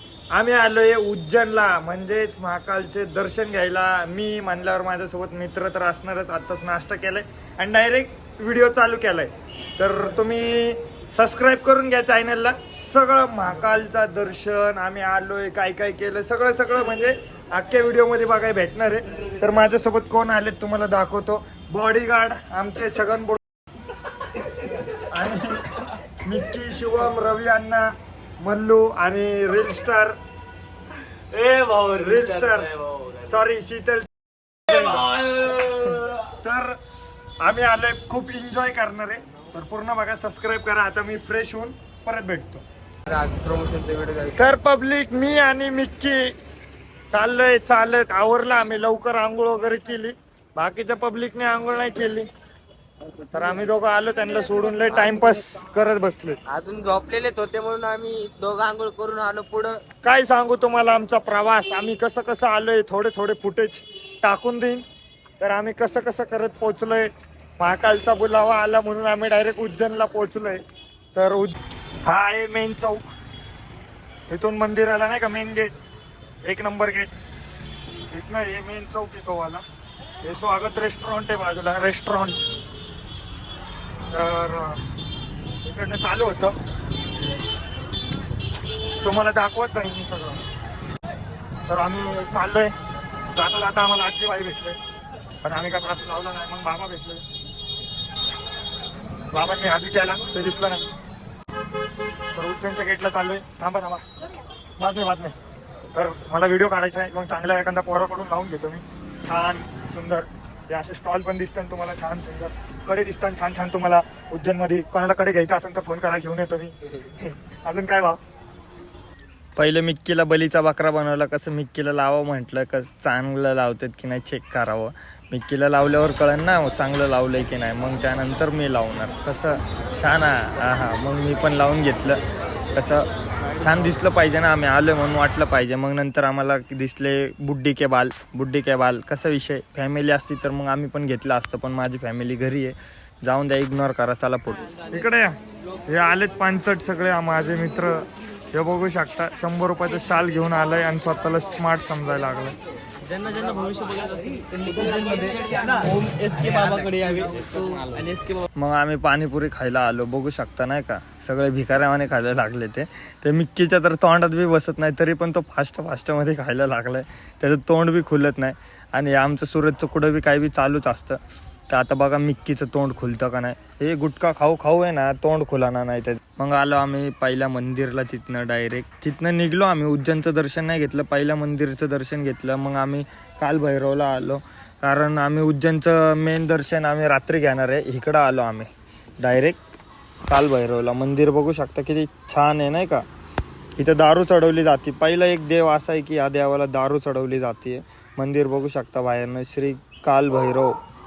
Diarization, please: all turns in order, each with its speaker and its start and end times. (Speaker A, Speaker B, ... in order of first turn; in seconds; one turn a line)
Speaker A: 0.3-23.4
Speaker A: 25.0-30.2
Speaker B: 31.3-31.8
Speaker A: 31.6-32.7
Speaker A: 33.2-34.1
Speaker A: 34.7-36.8
Speaker B: 35.6-36.0
Speaker A: 37.4-42.6
Speaker B: 43.1-44.3
Speaker A: 44.3-46.3
Speaker A: 47.1-52.3
Speaker A: 53.3-56.4
Speaker B: 56.5-59.8
Speaker A: 60.0-64.8
Speaker A: 65.4-70.6
Speaker A: 71.2-71.5
Speaker A: 72.0-73.1
Speaker A: 74.3-75.7
Speaker A: 76.4-77.1
Speaker A: 78.1-79.6
Speaker A: 80.2-82.4
Speaker A: 84.1-84.8
Speaker A: 85.6-86.6
Speaker A: 89.0-90.4
Speaker A: 91.7-92.7
Speaker A: 93.3-94.8
Speaker A: 95.4-97.2
Speaker A: 99.3-100.8
Speaker A: 102.3-104.0
Speaker A: 104.8-105.3
Speaker A: 105.9-118.2
Speaker A: 119.6-132.2
Speaker A: 132.8-133.1
Speaker A: 133.6-145.4
Speaker A: 145.9-152.6
Speaker B: 153.0-158.4
Speaker A: 158.5-188.7
Speaker A: 189.2-189.6
Speaker A: 190.3-193.1
Speaker A: 193.8-200.8